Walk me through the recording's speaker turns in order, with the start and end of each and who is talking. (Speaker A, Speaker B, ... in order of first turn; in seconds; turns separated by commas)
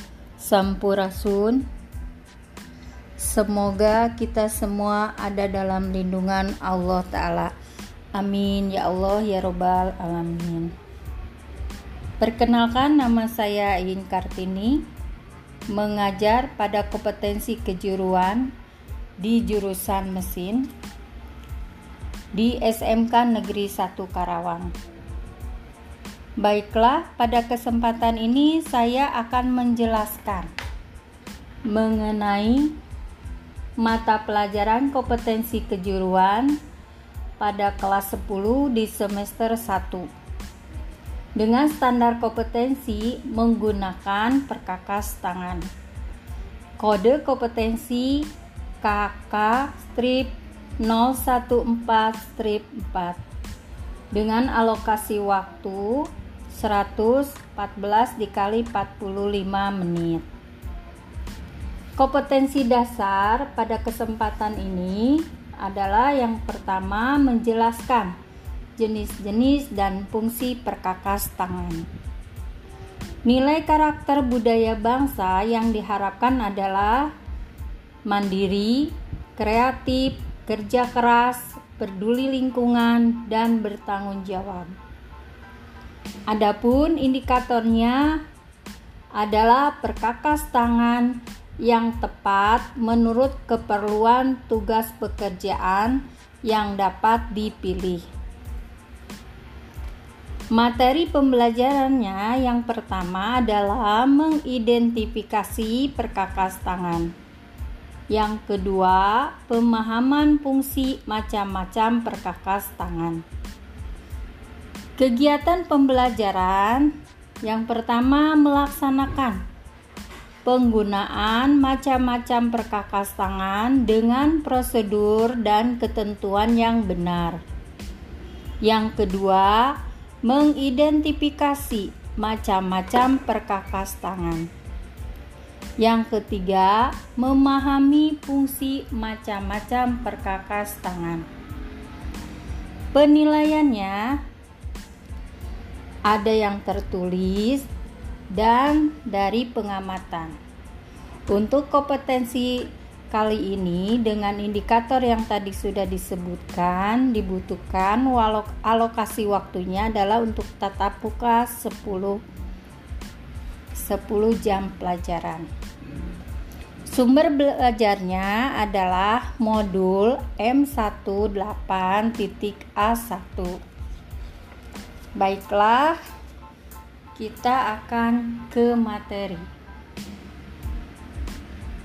Speaker A: 0.4-1.6, Speaker A: 3.2-7.5, Speaker A: 8.1-10.7, Speaker A: 12.2-14.8, Speaker A: 15.7-18.5, Speaker A: 19.2-20.7, Speaker A: 22.3-24.7, Speaker A: 26.4-30.5, Speaker A: 31.7-32.8, Speaker A: 33.8-36.6, Speaker A: 37.4-40.1, Speaker A: 41.4-45.6, Speaker A: 46.8-48.3, Speaker A: 48.8-53.2, Speaker A: 54.1-60.2, Speaker A: 62.0-68.1, Speaker A: 68.8-71.8, Speaker A: 73.2-77.1, Speaker A: 78.0-84.7, Speaker A: 86.3-88.2, Speaker A: 89.2-98.0, Speaker A: 100.5-107.1, Speaker A: 108.1-113.2, Speaker A: 115.0-119.4, Speaker A: 120.4-127.4, Speaker A: 128.6-134.5, Speaker A: 135.8-141.2, Speaker A: 142.9-144.2, Speaker A: 146.1-147.7, Speaker A: 148.3-150.4, Speaker A: 151.3-162.2, Speaker A: 163.7-165.5, Speaker A: 166.9-173.6, Speaker A: 175.2-176.0, Speaker A: 177.1-179.5